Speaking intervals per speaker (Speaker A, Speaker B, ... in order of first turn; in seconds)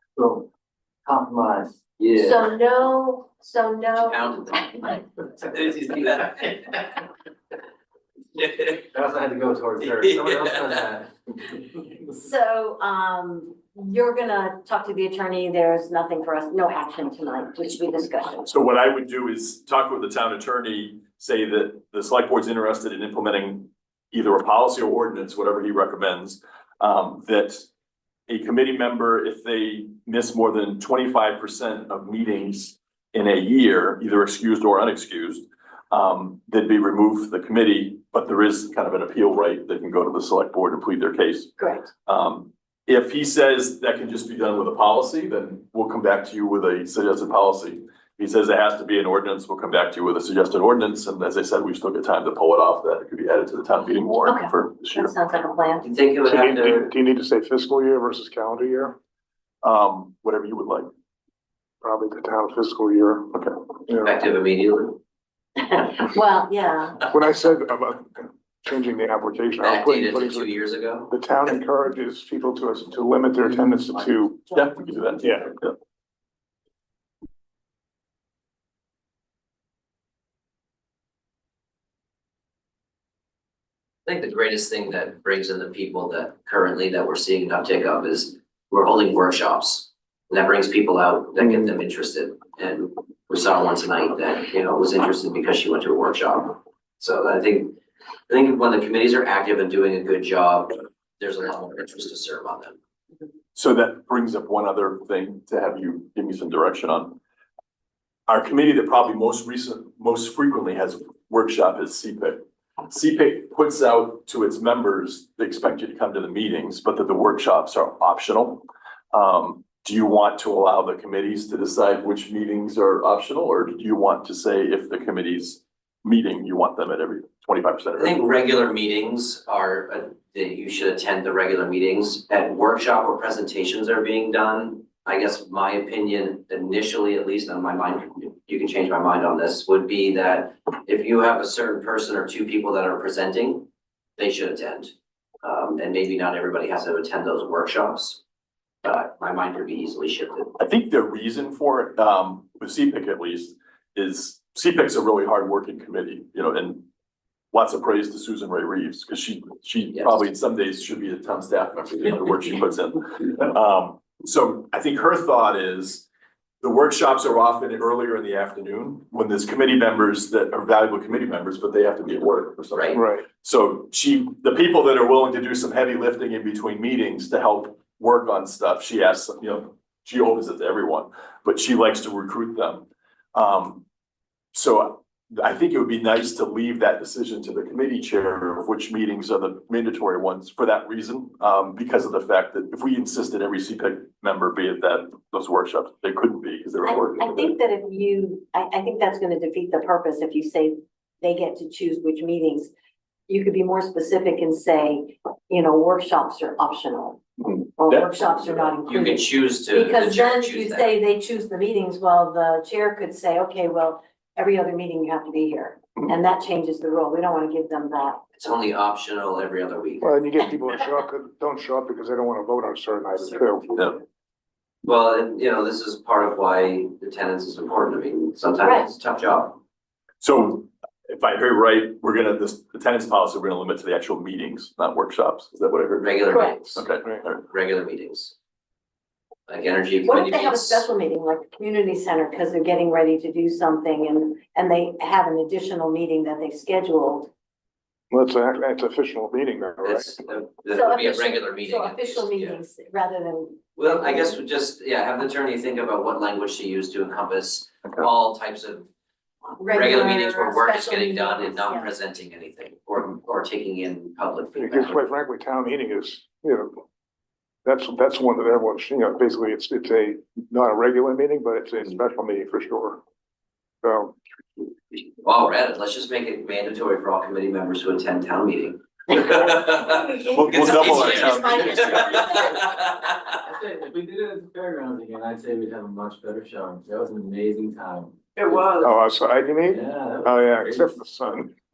Speaker A: 0.2-0.5, 1.1-1.8, 8.8-11.3, 283.4-288.2, 289.7-290.9
Speaker B: 2.0-2.4, 4.0-6.6, 55.8-56.9, 63.9-65.0, 69.6-71.1, 84.1-97.8, 98.3-102.8, 128.0-143.7, 144.2-144.9, 145.4-148.2, 148.8-150.5, 159.9-160.2, 172.7-173.0, 208.8-210.9, 218.4-220.1, 224.8-229.6, 236.0-236.8, 237.4-238.3, 239.5-240.9, 249.8-252.6, 253.8-258.9, 259.6-265.0, 275.2-283.1, 288.4-288.9
Speaker C: 2.2-5.0, 12.0-18.5, 41.6-41.9, 54.3-55.9, 65.6-67.1, 196.8-202.7, 203.3-207.2, 207.8-218.2, 228.6-228.9, 236.3-236.6, 240.1-247.3, 250.7-254.3, 259.6-261.9, 279.9-282.7
Speaker D: 18.4-27.7, 28.3-55.1, 59.6-60.9, 74.5-75.7, 103.5-107.2, 108.3-128.2, 150.6-156.9, 157.5-166.1, 166.6-183.8, 184.5-197.6, 207.4-208.7, 230.2-237.4, 280.3-282.3
Speaker E: 56.2-59.0, 61.8-63.4, 63.9-64.2, 67.1-70.5, 71.1-74.5, 75.2-75.5, 172.9-173.3, 220.0-224.0, 248.1-250.2, 264.6-266.8, 267.6-273.0, 273.8-274.2, 288.8-291.5